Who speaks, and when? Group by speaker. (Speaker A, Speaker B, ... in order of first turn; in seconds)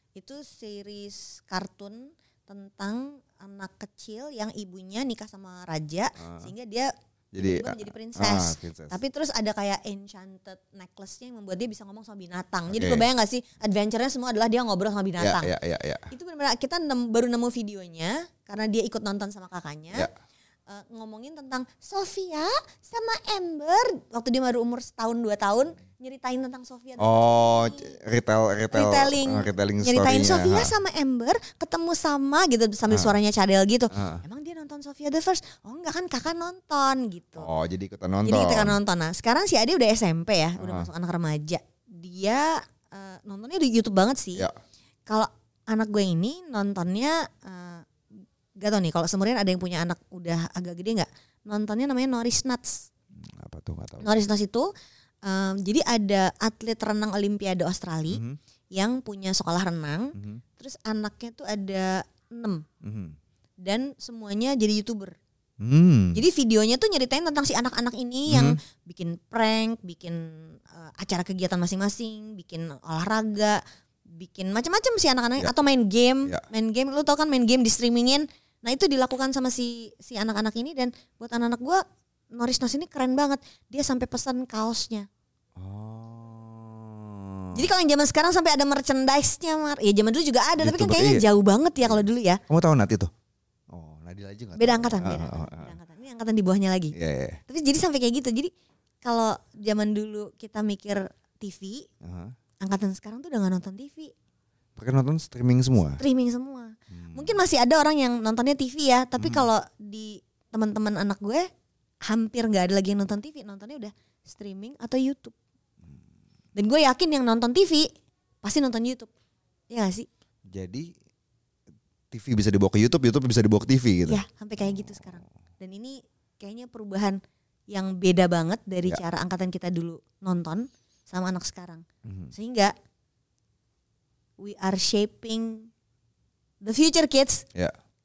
Speaker A: 0.1-15.5, 16.1-20.1, 20.7-27.9, 28.7-37.5, 38.2-44.5, 45.1-47.9, 48.6-52.9, 54.0-54.7, 55.2-58.2, 58.7-62.6, 63.6-65.1, 66.1-73.6, 74.2-81.8, 82.3-85.1, 87.5-92.4, 94.5-96.9, 97.5-98.5, 99.0-101.9, 102.6-104.1, 105.8-111.5, 112.1-115.3, 116.5-117.9, 118.4-119.1, 119.7-120.1, 124.0-127.2, 127.7-131.8, 132.3-132.7, 134.4-135.7, 136.6-137.4
Speaker B: 7.3-9.0, 12.7-13.1, 15.2-16.1, 27.0-30.7, 32.9-33.1, 33.9-34.2, 37.4-38.8, 40.6-40.9, 53.2-54.1, 58.1-58.4, 60.1-60.4, 62.8-63.1, 65.6-66.2, 68.3-68.6, 85.6-87.7, 90.6-91.2, 91.8-93.1, 93.7-95.7, 96.9-97.4, 102.0-102.3, 104.8-106.0, 106.9-107.4, 109.2-109.5, 120.5-120.9, 122.1-125.0, 132.1-132.3